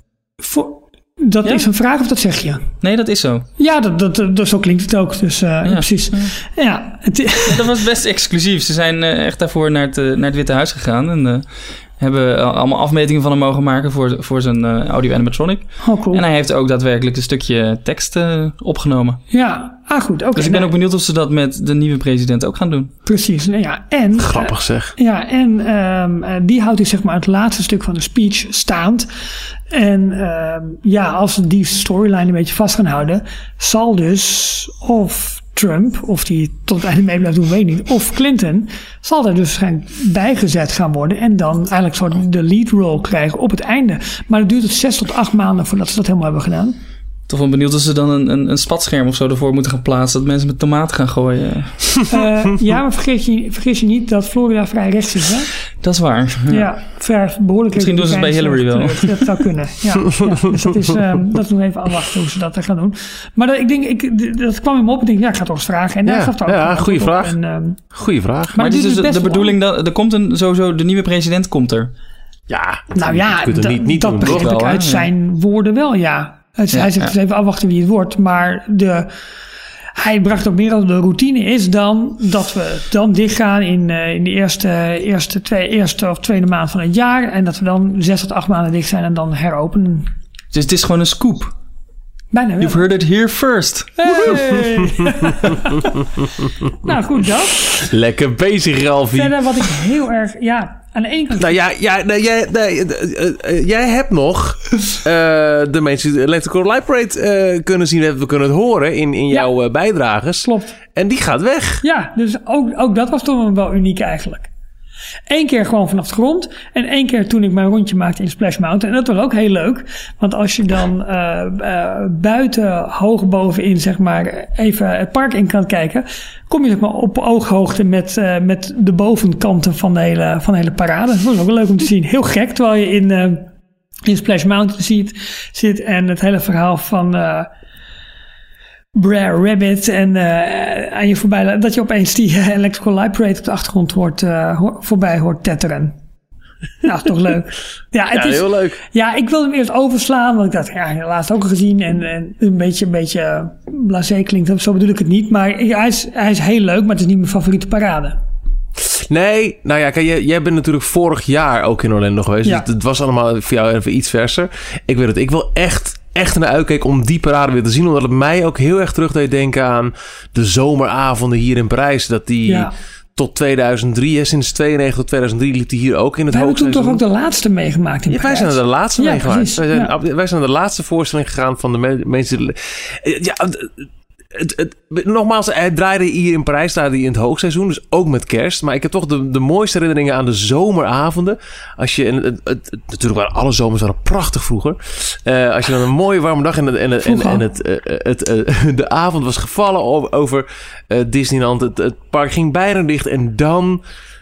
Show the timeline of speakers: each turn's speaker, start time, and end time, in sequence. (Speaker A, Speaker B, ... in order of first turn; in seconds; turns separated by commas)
Speaker A: 0.4-2.6, Speaker B: 2.8-3.5, Speaker A: 3.6-7.7, Speaker B: 5.6-6.3, Speaker B: 7.5-11.5, Speaker B: 12.0-19.2, Speaker A: 15.8-16.2, Speaker A: 19.3-20.7, Speaker B: 20.3-22.9, Speaker A: 23.1-29.1, Speaker C: 24.2-24.9, Speaker A: 29.7-46.8, Speaker B: 47.3-52.0, Speaker A: 52.1-55.5, Speaker B: 55.8-56.7, Speaker A: 56.5-67.8, Speaker B: 57.7-59.3, Speaker C: 60.1-60.8, Speaker C: 66.0-67.3, Speaker C: 67.9-68.7, Speaker A: 68.5-69.5, Speaker B: 68.6-71.9, Speaker C: 72.5-74.5, Speaker A: 72.9-79.1, Speaker B: 74.2-75.1, Speaker B: 76.7-77.1, Speaker A: 79.9-90.1, Speaker B: 90.5-91.5, Speaker A: 92.3-92.8, Speaker B: 92.6-94.4, Speaker A: 94.0-95.9, Speaker C: 94.3-95.3, Speaker C: 96.2-96.9, Speaker A: 96.8-97.6, Speaker C: 97.8-99.4, Speaker A: 99.1-101.6, Speaker C: 101.3-111.8, Speaker A: 110.4-110.8, Speaker A: 111.8-114.5, Speaker A: 115.3-133.5, Speaker A: 134.1-137.5, Speaker A: 138.9-145.9, Speaker A: 146.8-158.2, Speaker C: 148.1-148.8, Speaker C: 158.8-177.0, Speaker A: 172.5-172.7, Speaker A: 176.3-179.9, Speaker C: 178.1-203.8, Speaker A: 197.0-197.4